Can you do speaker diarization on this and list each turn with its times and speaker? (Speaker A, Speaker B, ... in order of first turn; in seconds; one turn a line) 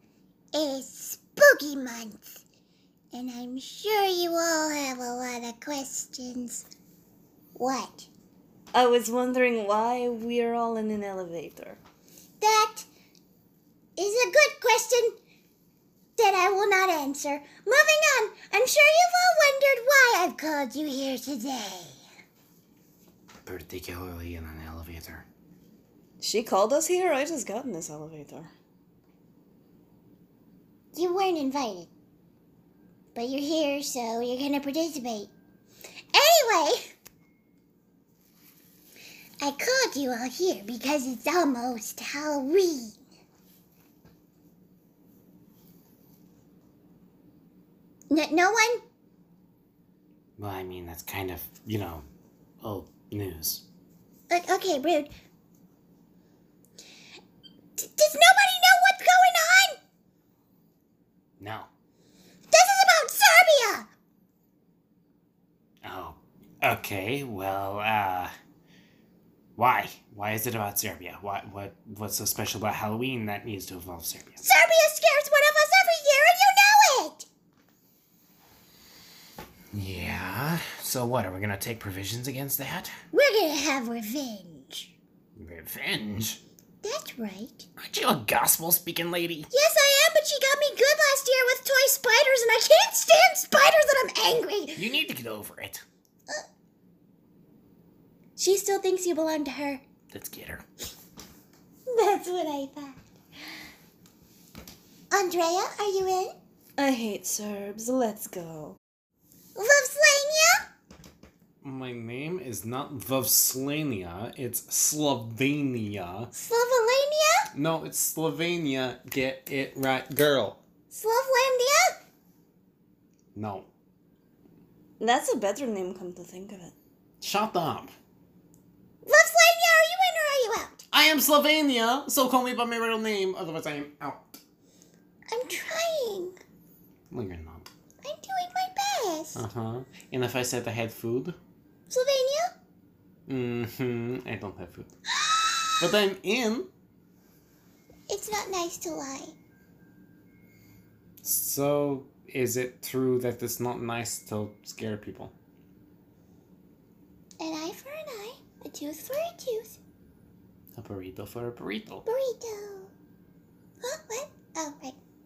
Speaker A: 0.5-2.4
Speaker A: 3.1-6.7
Speaker A: 7.6-8.1
Speaker B: 8.7-11.8
Speaker A: 12.4-12.9
Speaker A: 14.0-15.2
Speaker A: 16.2-22.0
Speaker C: 23.4-25.3
Speaker B: 26.2-28.5
Speaker A: 30.9-31.9
Speaker A: 33.1-35.3
Speaker A: 36.1-36.9
Speaker A: 39.4-43.0
Speaker A: 48.1-48.8
Speaker C: 50.4-52.1
Speaker C: 52.6-53.6
Speaker A: 54.3-55.1
Speaker A: 57.8-59.8
Speaker C: 61.4-61.7
Speaker A: 62.5-63.9
Speaker C: 65.8-68.3
Speaker C: 69.6-74.4
Speaker A: 74.4-77.3
Speaker C: 79.7-83.0
Speaker A: 83.1-84.9
Speaker C: 85.4-86.4
Speaker A: 86.8-87.7
Speaker C: 87.8-89.5
Speaker A: 89.5-94.9
Speaker C: 94.8-95.8
Speaker A: 98.4-99.8
Speaker C: 100.1-100.7
Speaker A: 101.9-103.0
Speaker A: 105.1-106.4
Speaker B: 106.8-108.8
Speaker A: 109.6-110.7
Speaker C: 111.6-116.3
Speaker A: 116.3-117.5
Speaker C: 117.5-120.6
Speaker A: 120.9-122.0
Speaker C: 123.3-123.7
Speaker B: 125.0-126.7
Speaker C: 127.2-127.9
Speaker A: 129.1-130.8
Speaker C: 130.9-134.4
Speaker A: 135.3-136.4
Speaker C: 137.1-137.7
Speaker A: 138.0-139.4
Speaker C: 139.3-141.4
Speaker A: 141.9-142.5
Speaker C: 143.3-144.9
Speaker A: 145.2-145.8
Speaker C: 145.8-146.7
Speaker A: 148.1-149.3
Speaker C: 151.2-155.3
Speaker A: 157.4-159.8
Speaker C: 160.8-162.1
Speaker A: 162.1-162.9
Speaker A: 163.8-165.0